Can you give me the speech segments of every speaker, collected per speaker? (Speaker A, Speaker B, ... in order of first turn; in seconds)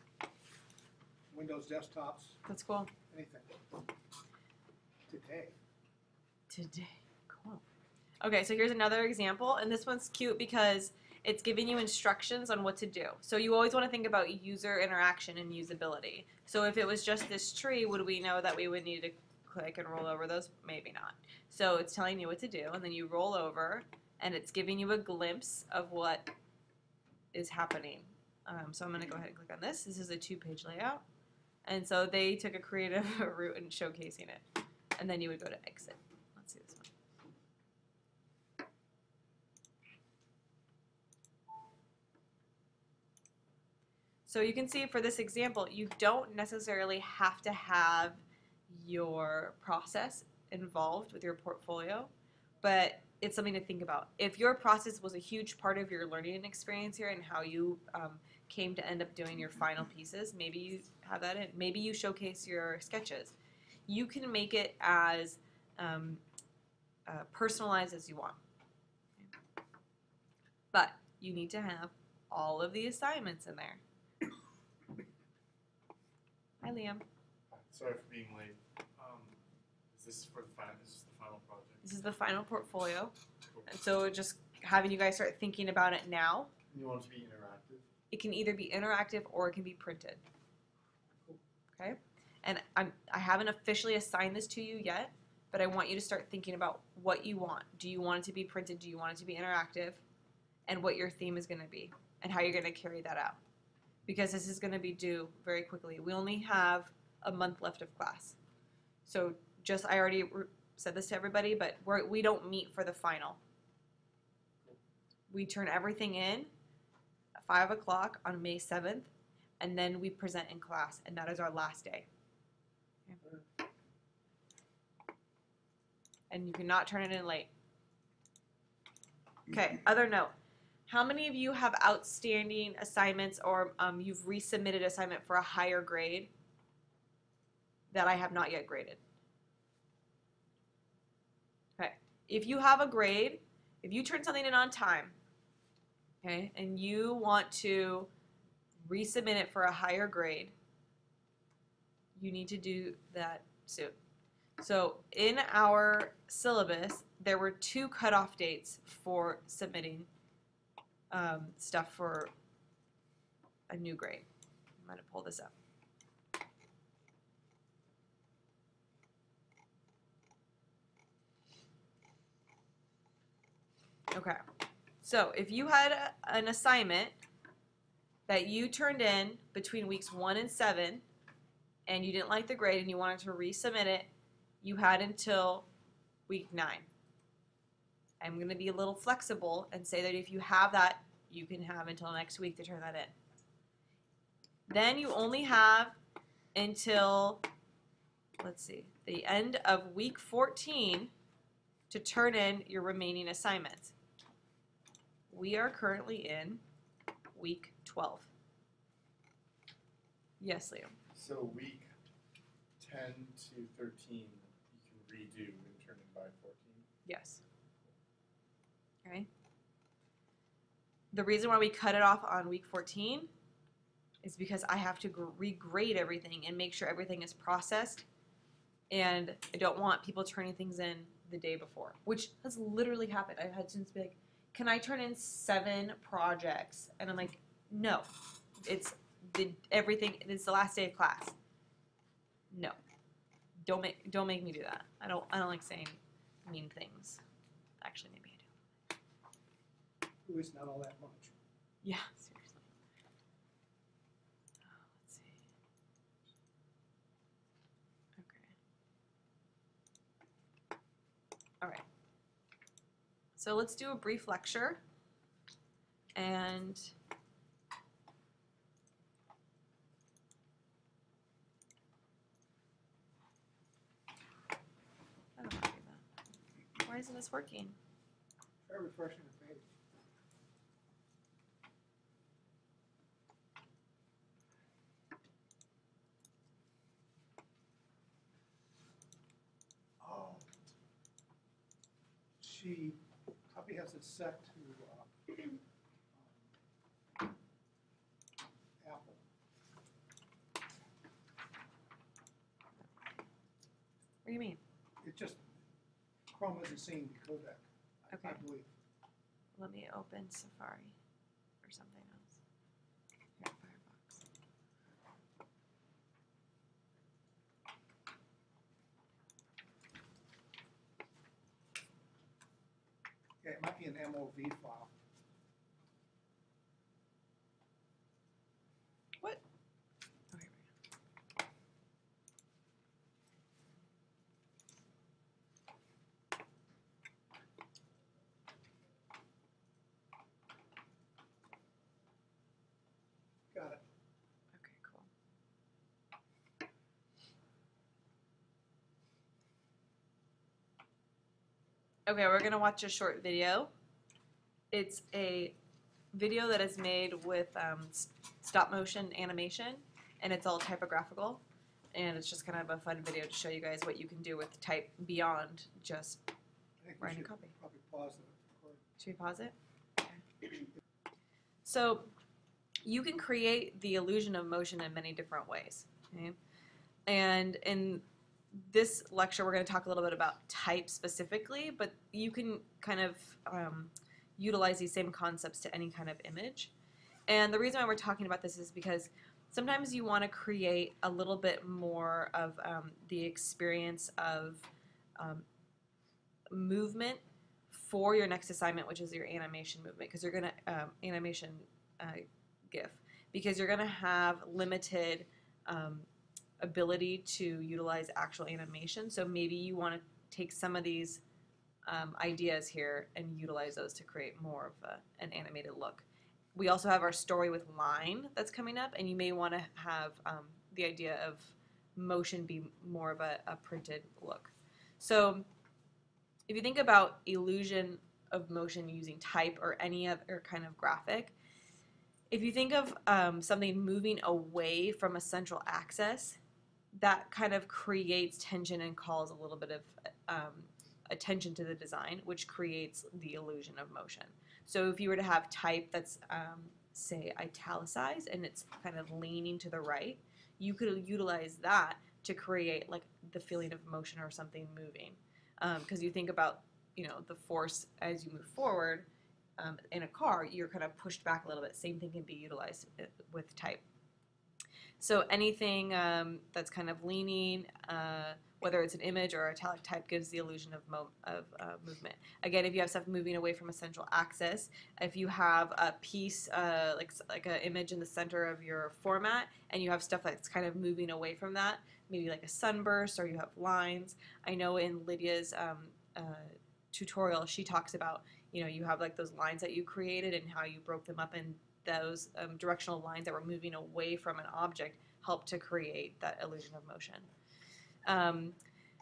Speaker A: 1.3-2.4, 3.1-3.6, 5.1-5.6, 250.2-251.3, 278.7-279.7, 290.0-290.5, 292.4-295.6, 296.1-296.5, 298.8-299.2, 305.0-305.4, 306.3-308.7, 323.4-324.9, 343.5-343.8, 366.8-368.8
Speaker B: 2.4-2.9, 6.5-7.6, 8.2-26.3, 27.3-31.0, 31.6-34.4, 35.0-36.9, 44.2-52.1, 52.6-63.4, 63.9-66.2, 67.1-68.4, 70.7-73.8, 76.6-77.0, 81.8-83.1, 83.7-86.5, 88.1-90.2, 91.8-100.0, 100.7-103.4, 104.1-108.4, 109.1-113.4, 115.3-116.5, 117.4-119.1, 119.6-122.1, 126.3-127.5, 129.5-130.3, 130.9-136.3, 137.9-139.0, 141.8-145.2, 146.2-148.1, 148.8-150.5, 152.2-153.9, 154.6-160.1, 161.1-162.3, 163.7-164.2, 164.8-165.5, 174.1-174.4, 175.0-177.1, 178.3-181.0, 181.9-184.1, 184.6-185.7, 186.3-186.9, 188.2-193.1, 194.7-195.9, 196.5-197.4, 198.4-201.1, 201.9-203.9, 205.3-206.6, 207.3-208.3, 210.4-210.9, 217.1-217.4, 221.1-223.3, 224.2-228.1, 228.9-241.3, 242.5-242.8, 243.6-247.2, 247.8-248.5, 251.8-252.6, 254.6-255.4, 258.2-258.5, 263.4-264.8, 266.1-266.9, 275.4-276.0, 276.8-277.8, 304.2-304.6, 308.1-308.4, 309.6-310.9, 311.6-312.4, 313.4-314.2, 330.3-330.6, 344.5-345.1, 352.1-353.7, 354.7-355.5, 356.1-361.4, 361.9-366.2, 367.0-367.5, 369.0-370.7, 371.6-372.1, 372.8-376.4, 377.1-386.7, 387.3-395.4, 396.5-406.1, 406.6-411.2, 411.9-425.4, 426.5-431.3, 432.3-436.4, 436.9-459.1, 459.6-463.8, 465.0-497.3, 498.1-498.6
Speaker C: 77.5-81.8, 86.7-87.9, 211.1-211.9, 212.8-216.9